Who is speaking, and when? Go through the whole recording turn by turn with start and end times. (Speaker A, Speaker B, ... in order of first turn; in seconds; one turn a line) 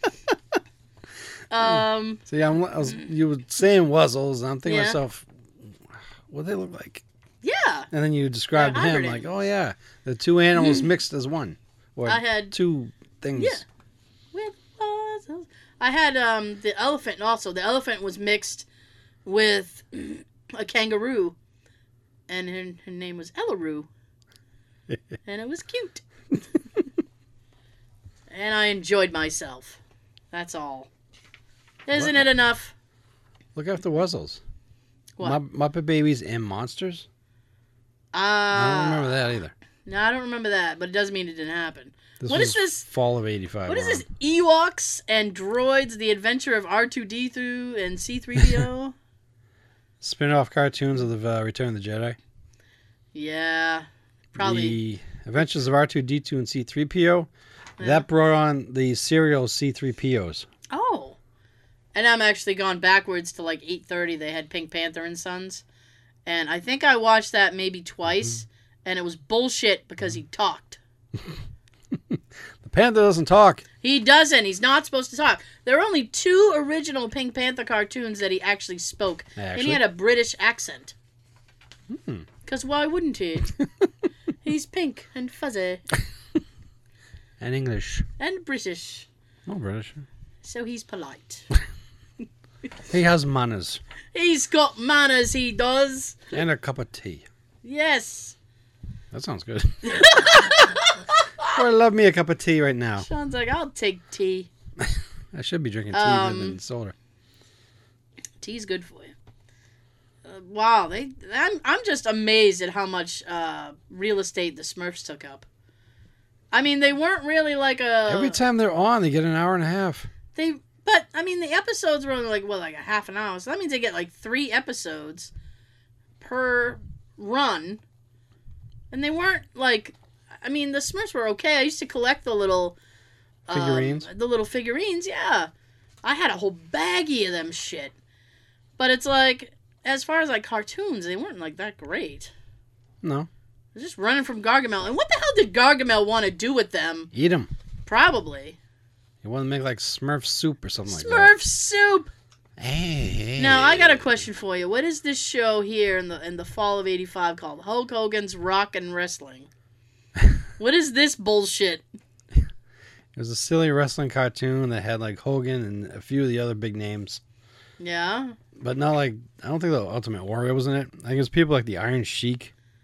Speaker A: 1.5-2.2
Speaker B: 1.6-5.7
Speaker A: 4.7-5.0
Speaker B: 6.3-7.0
Speaker A: 7.4-7.9
Speaker B: 7.9-13.6
Speaker A: 8.5-9.3
Speaker A: 12.1-12.6
Speaker A: 13.3-13.6
Speaker A: 14.3-18.7
Speaker A: 19.2-21.4
Speaker A: 22.3-23.9
Speaker A: 25.2-26.0
Speaker A: 28.3-29.8
Speaker A: 30.3-30.9
Speaker A: 31.9-32.7
Speaker B: 31.9-32.3
Speaker B: 33.5-34.4
Speaker B: 35.2-37.1
Speaker A: 38.1-39.3
Speaker B: 38.5-39.5
Speaker A: 39.9-42.9
Speaker B: 42.2-44.0
Speaker A: 43.7-49.0
Speaker B: 50.0-52.2
Speaker A: 53.1-54.8
Speaker B: 54.4-60.5
Speaker A: 57.8-58.1
Speaker A: 60.7-61.2
Speaker A: 62.0-65.6
Speaker A: 66.3-70.8
Speaker B: 72.0-73.6
Speaker A: 73.8-81.0
Speaker B: 79.4-79.8
Speaker B: 81.9-82.3
Speaker A: 82.5-83.5
Speaker A: 84.4-85.8
Speaker B: 87.4-88.1
Speaker A: 88.2-89.1
Speaker B: 89.5-90.1
Speaker A: 90.4-91.5
Speaker B: 92.9-93.8
Speaker A: 94.1-96.3
Speaker B: 96.3-97.3
Speaker A: 97.6-98.4
Speaker B: 99.1-100.6
Speaker A: 99.8-101.6
Speaker B: 101.4-103.1
Speaker A: 103.0-104.5
Speaker B: 104.8-107.0
Speaker A: 105.9-106.6
Speaker A: 108.4-109.2
Speaker A: 110.2-115.5
Speaker A: 116.5-118.4
Speaker B: 118.1-120.1
Speaker A: 120.3-125.3
Speaker A: 126.2-127.8
Speaker A: 128.9-132.8
Speaker A: 133.5-135.5
Speaker B: 133.5-134.1
Speaker A: 136.0-137.9
Speaker A: 138.8-142.3
Speaker B: 143.0-143.3
Speaker A: 143.8-147.1
Speaker B: 147.1-147.5
Speaker A: 147.9-148.6
Speaker B: 149.2-151.3
Speaker A: 150.9-152.1
Speaker B: 152.6-154.2
Speaker A: 153.4-159.5
Speaker A: 160.6-161.8
Speaker B: 163.2-167.2
Speaker A: 167.8-168.4
Speaker B: 168.6-172.5